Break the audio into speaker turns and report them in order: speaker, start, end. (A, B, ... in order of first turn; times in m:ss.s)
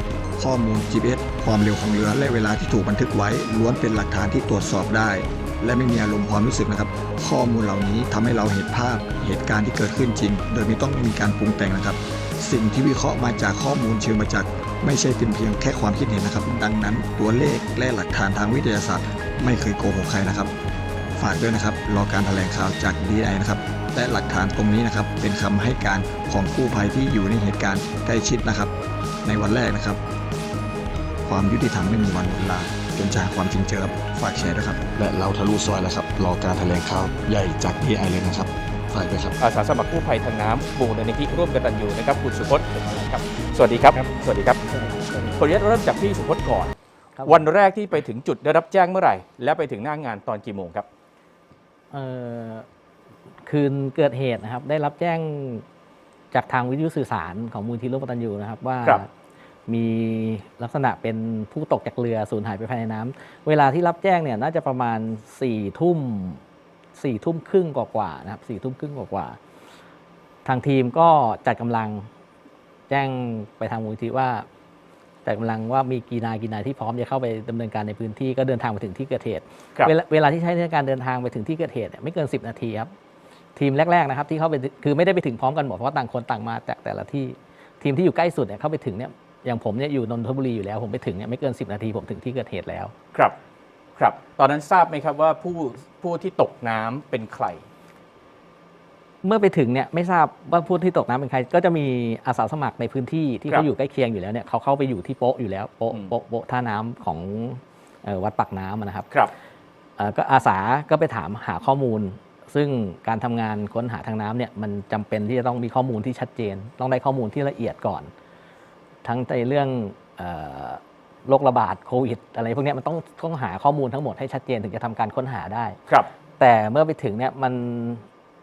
0:00.4-0:20.5 A
0:21.2-0:28.7 A
0:29.2-0:30.0 A
0:31.2-0:39.4 A
0:39.4-0:44.6 B
0:44.6-0:45.4 C
0:45.4-0:46.7 B
0:47.2-0:47.4 C
0:47.2-0:50.9 B
0:51.9-0:52.7 C
0:53.4-0:55.6 C
0:56.3-0:59.1 C
0:59.7-1:06.4 C
1:07.0-1:09.4 C
1:10.4-1:12.1 C
1:12.9-1:14.5 C
1:15.2-1:22.9 C
1:23.6-1:32.9 C
1:34.0-1:37.6 B
1:39.2-1:49.1 C
1:50.0-1:58.1 C
1:59.0-2:05.8 C
2:06.4-2:08.0 C